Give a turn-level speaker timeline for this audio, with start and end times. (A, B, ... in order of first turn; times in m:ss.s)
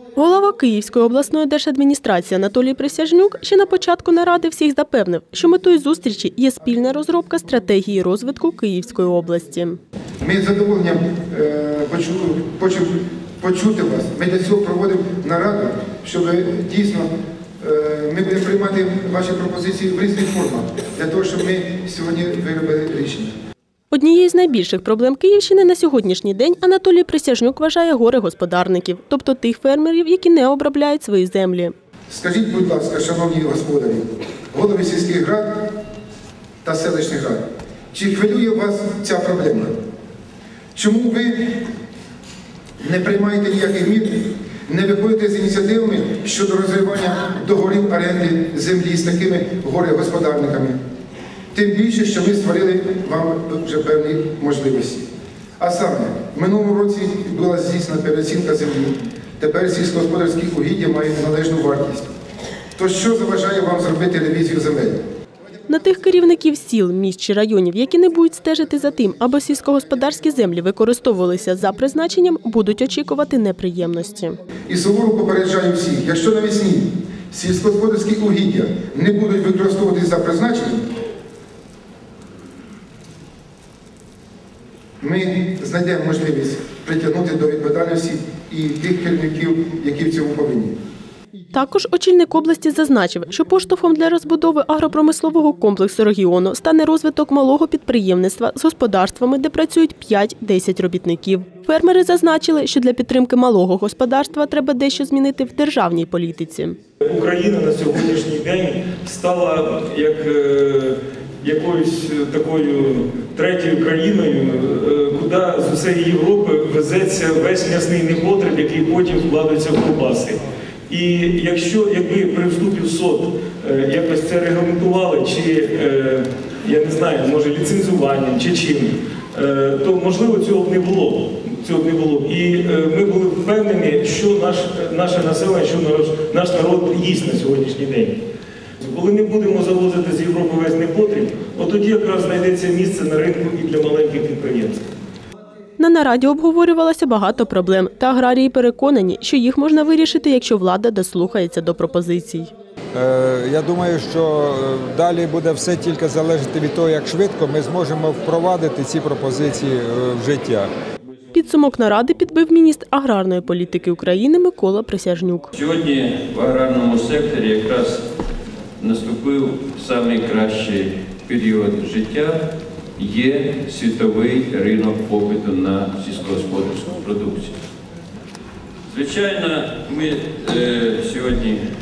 0:00.2-0:09.8 A
0:10.2-0:23.3 B
0:23.9-0:31.7 A
0:32.1-0:35.7 B
0:36.6-0:39.7 B
0:40.7-0:41.7 B
0:42.8-0:50.8 B
0:51.5-1:02.1 B
1:02.8-1:05.0 B
1:05.7-1:14.4 A
1:14.7-1:20.8 B
1:25.0-1:30.8 B
1:31.5-1:46.8 A
1:47.0-2:18.2 C
2:18.8-2:24.8 C
2:25.8-2:32.5 A
2:32.9-2:40.7 D
2:41.3-2:45.5 A
2:45.5-2:48.0 E
2:48.8-2:57.6 E
2:58.9-3:01.6 E